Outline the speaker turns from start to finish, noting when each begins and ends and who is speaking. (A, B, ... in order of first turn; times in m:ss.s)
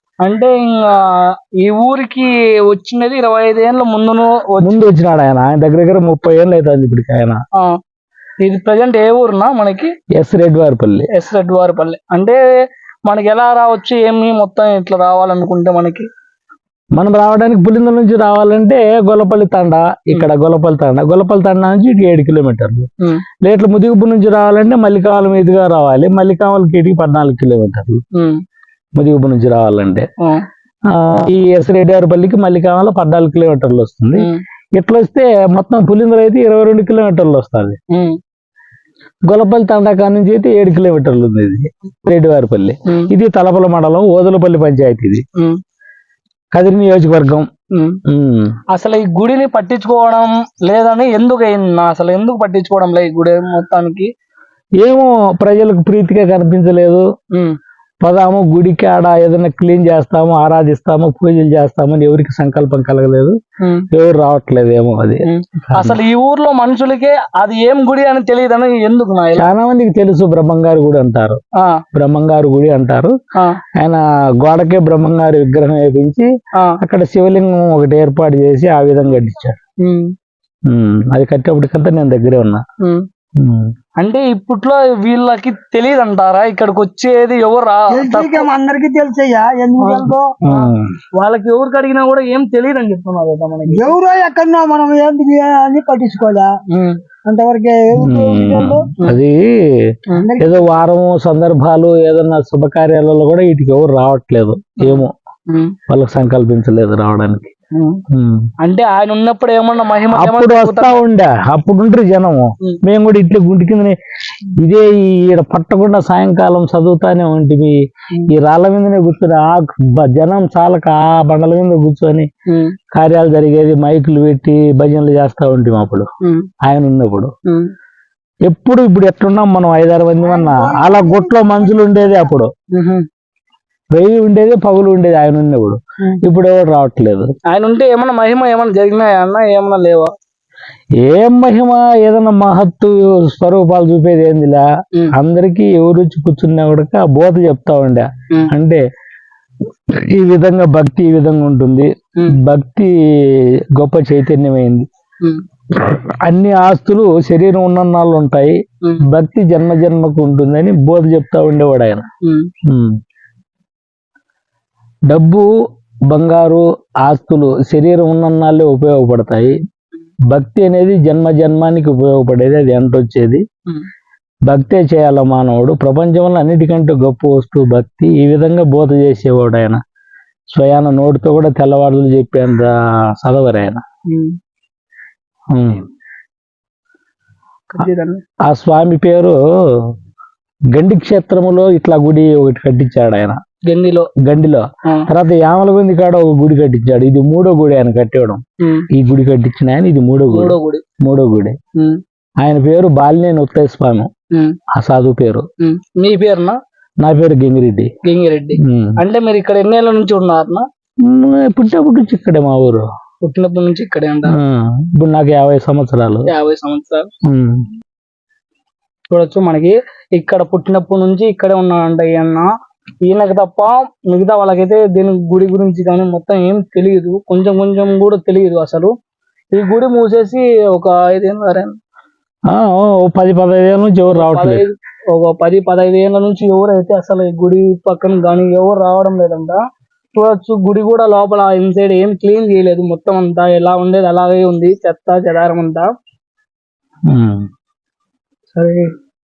0:00.2-0:04.8 A
0:04.6-0:07.4 B
0:08.4-0:09.9 A
0:10.2-0:11.1 B
0:11.1-0:12.4 A
0:13.1-0:16.1 A
0:17.0-0:22.9 B
0:23.4-0:28.0 B
0:29.0-0:30.1 B
0:30.9-0:37.8 B
0:37.9-0:38.2 A
0:39.3-0:45.2 B
0:46.5-0:47.5 B
0:48.1-0:48.5 B
0:48.7-0:54.1 A
0:54.8-0:57.1 B
0:58.0-1:03.4 B
1:03.6-1:03.9 A
1:03.9-1:06.0 B
1:05.3-1:09.5 A
1:09.4-1:11.4 B
1:11.9-1:13.1 B
1:13.8-1:16.3 B
1:16.8-1:19.6 B
1:19.8-1:20.1 A
1:20.7-1:22.6 B
1:23.4-1:23.7 B
1:24.0-1:28.5 A
1:27.9-1:30.4 C
1:29.8-1:30.6 A
1:30.4-1:30.9 B
1:31.2-1:34.0 A
1:33.7-1:36.5 C
1:36.7-1:37.0 A
1:37.2-1:38.9 C
1:38.0-1:39.7 B
1:40.2-1:40.6 C
1:40.4-1:45.1 B
1:44.8-1:45.8 A
1:45.9-1:47.5 B
1:47.8-1:48.0 A
1:48.1-1:48.5 B
1:48.6-1:51.0 A
1:50.1-1:54.0 B
1:54.6-2:02.3 B
2:02.9-2:06.1 B
2:06.6-2:07.3 B
2:08.5-2:12.5 B
2:10.4-2:11.9 C
2:12.7-2:13.0 A
2:13.9-2:17.3 B
2:17.5-2:20.1 A
2:21.0-2:28.8 B
2:29.9-2:34.9 B
2:35.7-2:42.0 B
2:42.2-2:42.5 A
2:42.7-2:42.9 B
2:45.1-2:45.5 B
2:46.1-2:49.6 B
2:50.3-2:53.4 B
2:54.5-2:59.8 B
3:00.5-3:03.8 B
3:05.5-3:05.8 B
3:07.7-3:08.2 A
3:08.4-3:09.9 B
3:10.7-3:13.4 B
3:13.7-3:14.1 A
3:14.2-3:18.4 B
3:18.9-3:21.6 B
3:20.3-3:20.8 A
3:22.4-3:24.1 B
3:24.7-3:25.5 B
3:25.6-3:26.6 A
3:27.0-3:27.9 B
3:28.1-3:30.6 A
3:28.6-3:29.0 B
3:31.0-3:32.9 B
3:33.2-3:34.4 A
3:34.3-3:36.3 B
3:36.3-3:37.1 A
3:37.2-3:37.7 B
3:39.1-3:42.5 A
3:43.1-3:48.9 A
3:49.5-3:51.8 A
3:52.5-3:54.6 B
3:54.1-3:59.6 A
4:00.2-4:05.9 A
4:07.1-4:07.5 B
4:08.6-4:08.9 A